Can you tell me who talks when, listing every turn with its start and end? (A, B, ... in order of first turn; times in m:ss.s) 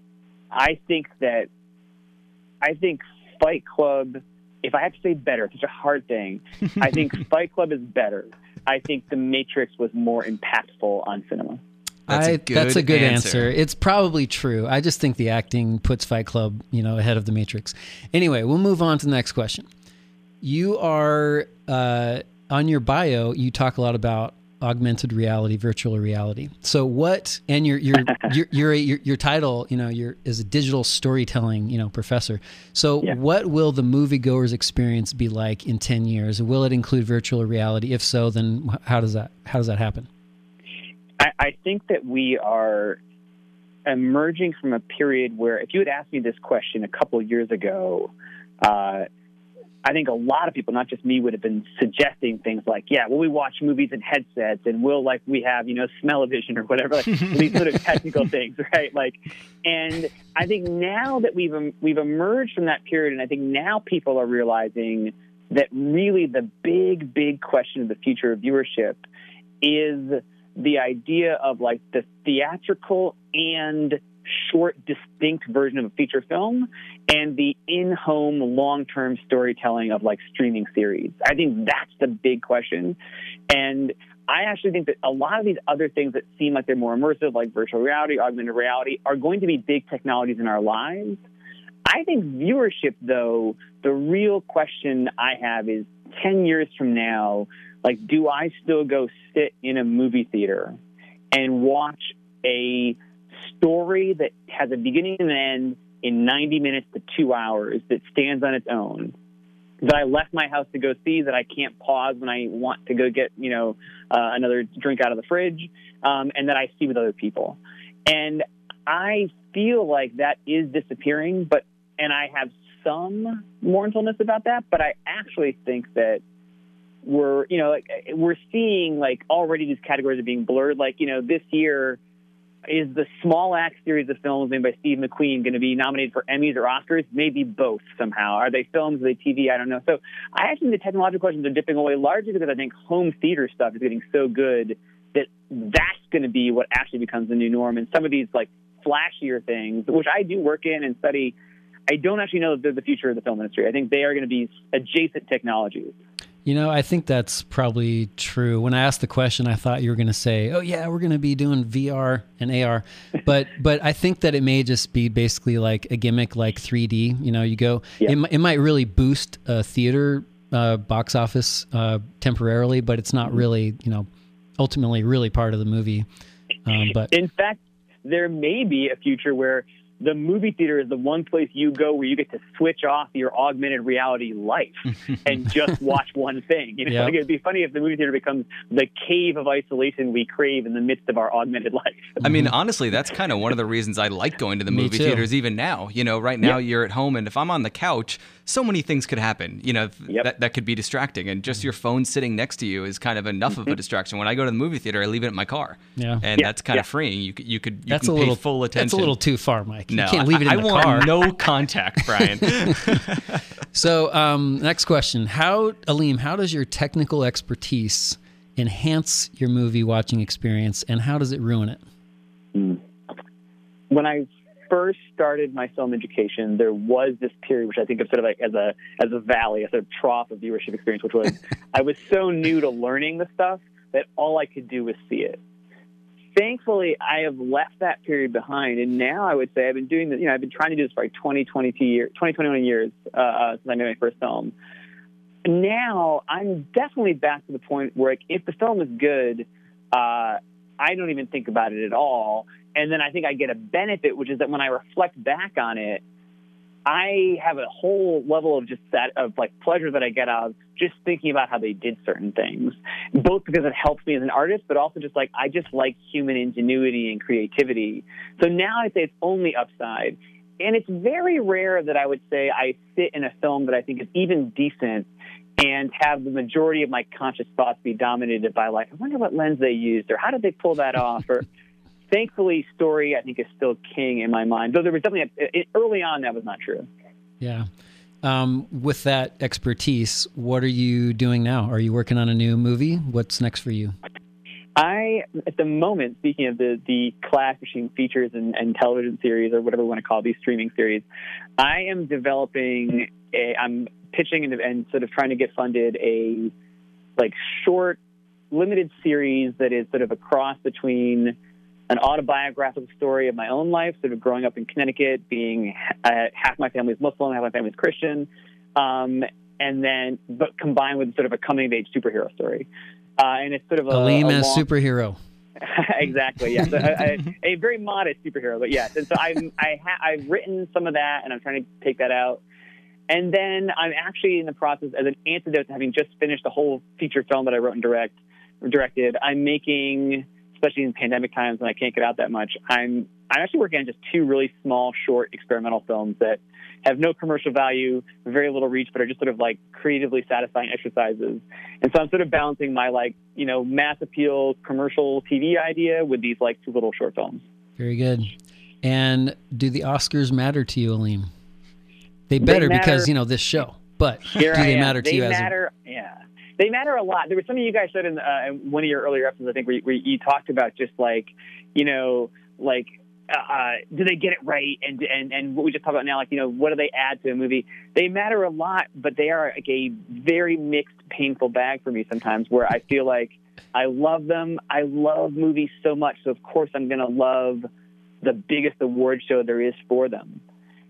0:00.5-0:01.5 A
0:02.6-0:11.6 A
0:12.1-0:13.5 B
0:12.1-0:19.6 C
0:20.4-0:40.1 C
0:41.2-0:43.0 A
0:43.8-0:49.1 A
0:49.8-1:09.0 A
1:09.6-1:23.0 A
1:23.5-1:31.2 A
1:31.8-1:40.8 A
1:41.3-1:49.1 A
1:49.8-2:06.2 A
2:07.0-2:12.0 A
2:12.7-2:31.3 A
2:31.9-2:35.9 A
2:36.4-2:54.1 C
2:54.6-2:56.1 C
2:56.6-2:57.1 C
2:57.1-3:12.2 A
3:06.9-3:07.1 C
3:12.2-3:12.5 C
3:12.2-3:29.1 B
3:14.7-3:15.3 C
3:26.0-3:26.2 C
3:26.4-3:26.8 A
3:27.9-3:31.1 C
3:29.9-3:33.4 B
3:33.7-3:41.8 C
3:42.5-3:42.8 A
3:43.9-3:55.4 A
3:56.4-4:04.5 A
4:05.4-4:16.0 A
4:16.8-4:41.4 A
4:42.1-4:46.9 A
4:47.4-4:47.7 C
4:48.2-4:53.9 C
4:54.8-5:01.0 A
5:01.6-5:06.5 A
5:07.2-5:08.0 A
5:08.5-5:11.3 A
5:11.9-5:22.7 A
5:23.2-5:24.6 A
5:23.9-5:25.2 C
5:25.6-5:32.4 A
5:33.1-5:57.4 A
5:57.8-6:01.3 C
6:02.3-6:05.5 C
6:02.4-6:03.1 A
6:04.4-6:27.7 A
6:28.2-6:30.4 A